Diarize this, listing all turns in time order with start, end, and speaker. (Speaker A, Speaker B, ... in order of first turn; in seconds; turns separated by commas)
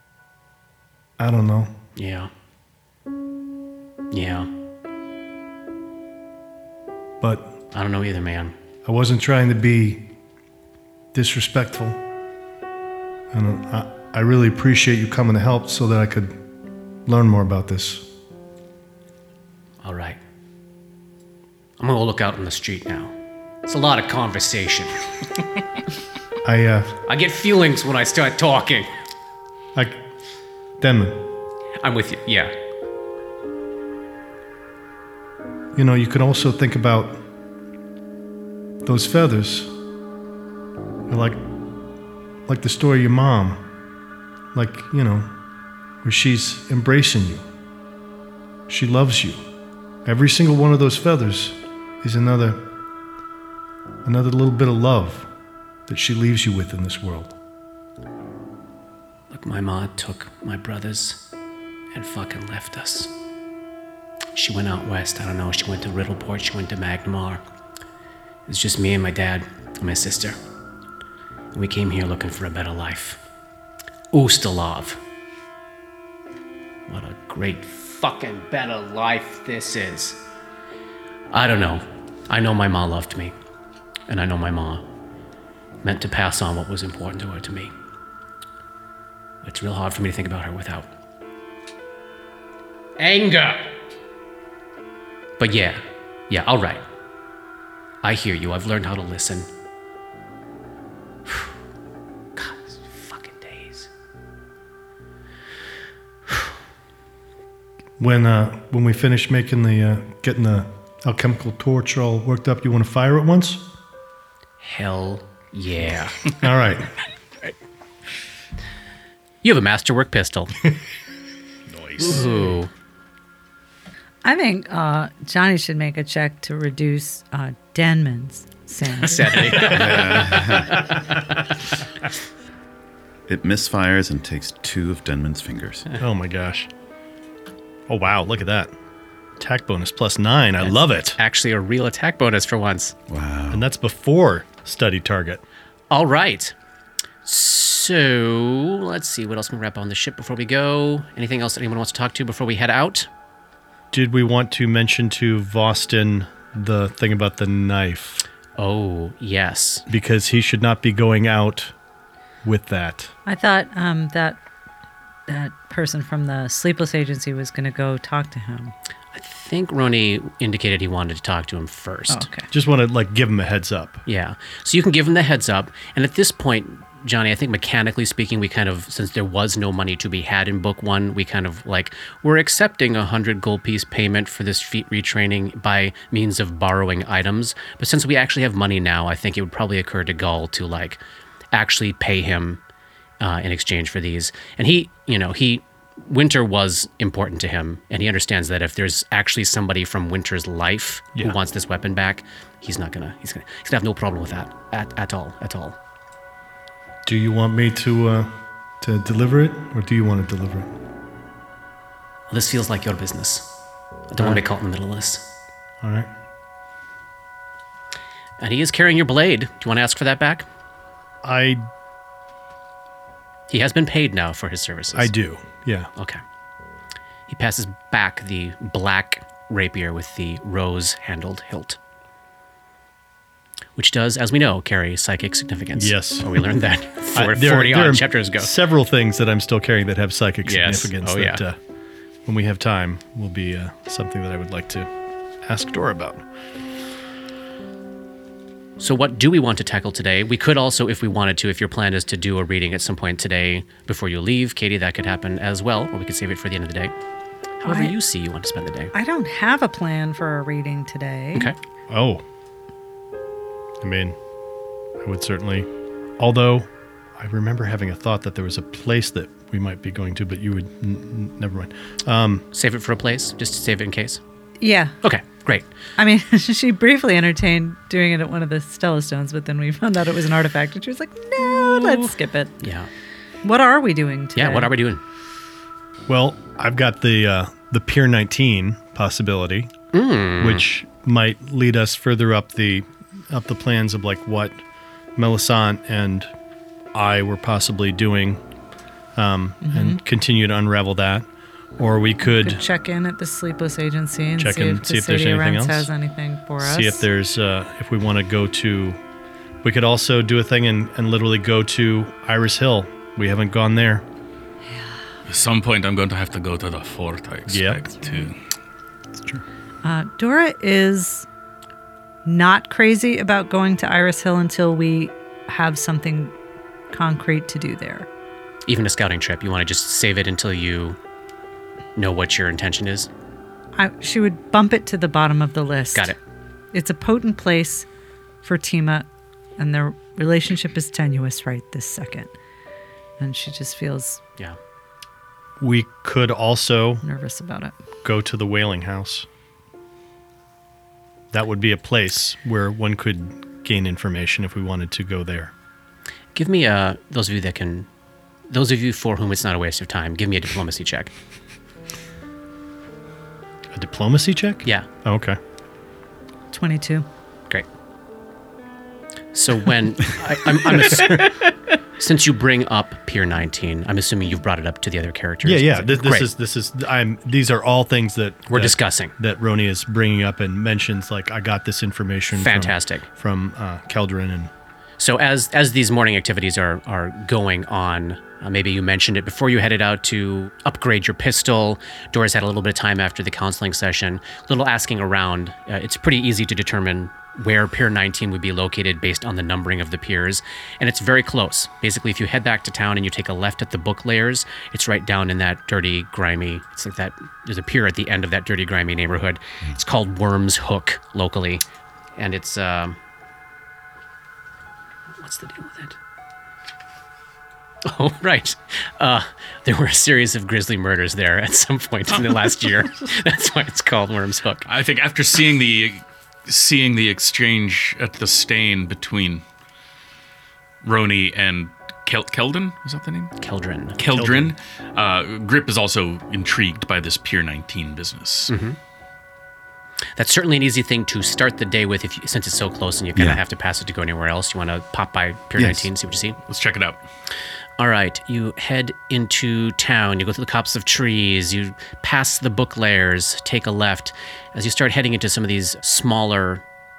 Speaker A: 1.2-1.7, Speaker B: 2.0-2.3, Speaker B: 4.1-4.5, Speaker A: 7.2-7.5, Speaker B: 7.7-8.5, Speaker A: 8.8-10.1, Speaker A: 11.1-12.0, Speaker A: 13.3-16.4, Speaker A: 17.1-18.1, Speaker B: 19.8-20.2, Speaker B: 21.8-23.1, Speaker B: 23.7-25.0, Speaker A: 26.4-26.9, Speaker B: 27.1-28.9, Speaker A: 29.8-30.0, Speaker A: 30.8-31.2, Speaker B: 31.8-32.5, Speaker A: 35.8-37.2, Speaker A: 38.8-39.7, Speaker A: 41.1-41.4, Speaker A: 42.5-43.6, Speaker A: 44.5-45.3, Speaker A: 46.0-47.4, Speaker A: 48.7-49.4, Speaker A: 50.0-52.6, Speaker A: 54.0-55.3, Speaker A: 55.9-57.3, Speaker B: 59.3-61.2, Speaker B: 61.9-63.1, Speaker B: 64.3-67.4, Speaker B: 68.5-70.4, Speaker B: 71.5-73.2, Speaker B: 74.1-75.0, Speaker B: 76.9-80.2, Speaker B: 81.3-83.3, Speaker B: 84.1-84.8, Speaker B: 85.8-87.7, Speaker B: 89.4-90.9, Speaker B: 93.0-93.7, Speaker B: 95.4-96.8, Speaker B: 98.0-99.5, Speaker B: 102.4-103.9, Speaker A: 108.0-113.7, Speaker B: 114.6-116.3, Speaker A: 116.4-116.9, Speaker B: 119.4-120.5, Speaker C: 121.7-122.2, Speaker B: 122.0-122.7, Speaker D: 124.2-129.6, Speaker B: 129.0-131.4, Speaker E: 129.6-130.9, Speaker E: 133.3-135.9, Speaker A: 136.0-136.7, Speaker A: 137.9-138.7, Speaker A: 139.4-141.2, Speaker B: 140.6-143.0, Speaker E: 143.1-143.7, Speaker A: 143.5-145.4, Speaker B: 145.9-146.5, Speaker B: 147.2-153.1, Speaker A: 153.9-158.2, Speaker B: 158.6-159.8, Speaker A: 159.9-161.7, Speaker A: 162.4-163.1, Speaker D: 163.3-164.4, Speaker D: 165.3-168.7, Speaker B: 169.1-172.3, Speaker D: 172.1-172.5, Speaker A: 172.5-174.0, Speaker B: 174.1-191.0, Speaker B: 191.5-192.6, Speaker B: 193.2-205.8, Speaker A: 207.1-210.7, Speaker B: 212.3-213.5, Speaker B: 214.1-215.3, Speaker A: 215.8-216.1, Speaker B: 218.4-220.5, Speaker A: 221.2-221.7, Speaker B: 223.5-225.1, Speaker A: 224.9-225.9, Speaker B: 226.0-226.2, Speaker B: 227.3-231.8, Speaker B: 233.8-238.5, Speaker A: 235.8-236.4, Speaker A: 237.2-241.6, Speaker B: 240.4-241.4, Speaker A: 242.3-244.9, Speaker A: 245.4-246.2, Speaker B: 248.8-256.9, Speaker B: 257.6-258.9, Speaker D: 257.7-257.9, Speaker D: 258.9-261.5, Speaker A: 261.9-262.2, Speaker A: 263.8-264.2, Speaker A: 265.0-272.5, Speaker B: 272.5-274.2, Speaker D: 274.6-275.0, Speaker B: 275.0-275.7, Speaker D: 276.0-282.6, Speaker B: 281.4-282.9, Speaker D: 283.4-284.7, Speaker B: 284.4-285.0, Speaker A: 286.1-289.7, Speaker B: 289.9-290.7, Speaker A: 290.4-294.6, Speaker A: 295.2-296.3, Speaker A: 296.9-298.4, Speaker A: 299.1-301.3, Speaker D: 299.6-300.0, Speaker A: 301.8-302.6, Speaker D: 302.2-307.1, Speaker A: 304.4-305.9, Speaker A: 306.6-309.0, Speaker A: 309.6-314.0, Speaker C: 315.3-318.4, Speaker A: 317.5-317.9, Speaker E: 319.2-319.4, Speaker D: 319.8-321.3, Speaker D: 322.2-326.3, Speaker D: 326.9-328.1, Speaker B: 328.7-331.0, Speaker B: 332.0-333.1, Speaker D: 333.8-336.1, Speaker D: 336.7-337.9, Speaker D: 338.4-339.1, Speaker D: 339.6-342.3, Speaker D: 343.2-344.2, Speaker A: 345.6-347.1, Speaker D: 347.1-347.8, Speaker A: 348.0-349.3, Speaker A: 351.3-355.5, Speaker B: 356.4-357.9, Speaker B: 358.5-361.1, Speaker A: 363.7-365.4, Speaker D: 366.5-367.1, Speaker B: 369.3-376.3, Speaker A: 370.6-371.0, Speaker A: 375.4-384.5, Speaker B: 378.5-379.1, Speaker B: 382.3-383.1, Speaker B: 385.0-411.6, Speaker B: 412.2-413.0, Speaker B: 415.2-416.0, Speaker B: 417.8-424.7, Speaker C: 424.7-429.4, Speaker C: 430.8-433.3, Speaker B: 433.4-434.0, Speaker C: 434.0-438.5, Speaker A: 434.1-434.5, Speaker B: 438.5-438.8, Speaker B: 440.2-446.4, Speaker E: 443.2-443.4, Speaker E: 445.6-445.9, Speaker C: 446.5-447.0, Speaker B: 447.8-456.6